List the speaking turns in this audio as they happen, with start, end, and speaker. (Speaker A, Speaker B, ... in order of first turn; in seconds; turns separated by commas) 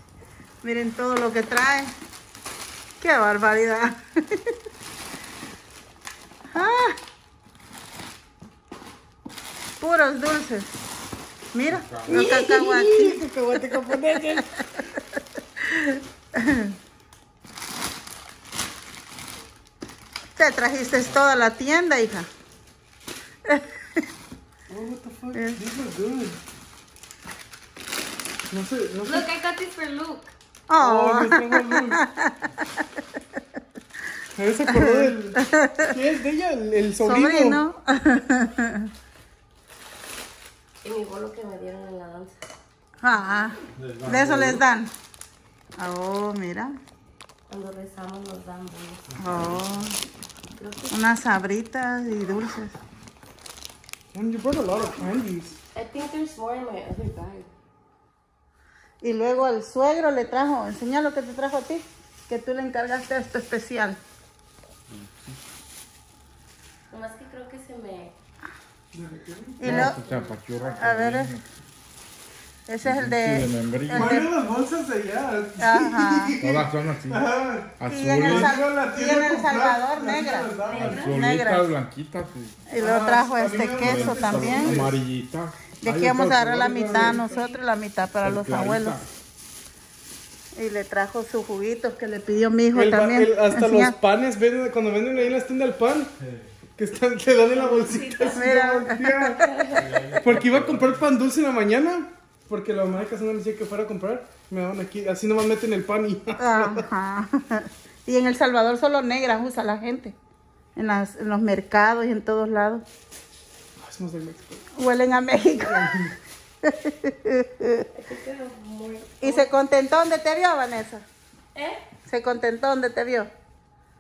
Speaker A: 0.6-1.9, Speaker A: 3.0-4.4, Speaker A: 6.5-7.0, Speaker A: 9.8-10.7, Speaker A: 11.5-13.2, Speaker B: 11.7-12.2, Speaker C: 12.1-14.2, Speaker D: 12.1-14.6, Speaker A: 15.7-16.7, Speaker A: 20.4-22.3, Speaker C: 24.7-26.4, Speaker C: 28.5-29.3, Speaker D: 29.0-30.3, Speaker A: 30.7-32.5, Speaker C: 30.8-32.0, Speaker C: 34.3-37.6, Speaker A: 34.7-35.9, Speaker A: 37.0-38.9, Speaker D: 40.8-42.4, Speaker A: 43.0-44.9, Speaker B: 43.7-44.6, Speaker A: 45.8-46.8, Speaker D: 47.5-49.2, Speaker A: 49.2-50.0, Speaker B: 49.2-49.5, Speaker D: 50.5-50.9, Speaker A: 50.9-52.8, Speaker C: 54.1-55.6, Speaker D: 55.7-57.5, Speaker A: 59.0-64.0, Speaker B: 64.9-65.4, Speaker D: 66.9-68.1, Speaker C: 68.9-69.8, Speaker A: 69.6-70.0, Speaker B: 69.6-71.5, Speaker A: 70.7-71.3, Speaker A: 72.7-74.3, Speaker B: 72.8-74.2, Speaker C: 73.9-81.2, Speaker A: 75.6-76.4, Speaker B: 76.4-77.2, Speaker B: 77.8-78.5, Speaker A: 77.8-81.7, Speaker D: 80.6-81.2, Speaker B: 80.8-82.7, Speaker A: 82.7-84.8, Speaker C: 82.7-85.0, Speaker B: 83.8-85.6, Speaker A: 85.8-89.0, Speaker C: 85.8-87.4, Speaker B: 88.2-89.1, Speaker A: 90.5-94.0, Speaker C: 92.7-96.1, Speaker C: 96.8-99.5, Speaker D: 97.5-98.4, Speaker A: 98.3-99.5, Speaker D: 99.4-99.9, Speaker B: 99.7-101.0, Speaker C: 100.0-106.8, Speaker A: 106.4-110.1, Speaker A: 110.7-112.8, Speaker C: 113.8-114.7, Speaker A: 114.7-116.1, Speaker C: 115.6-116.1, Speaker A: 116.6-117.8, Speaker D: 117.9-119.5, Speaker A: 119.2-121.0, Speaker D: 121.5-121.8, Speaker A: 122.0-123.3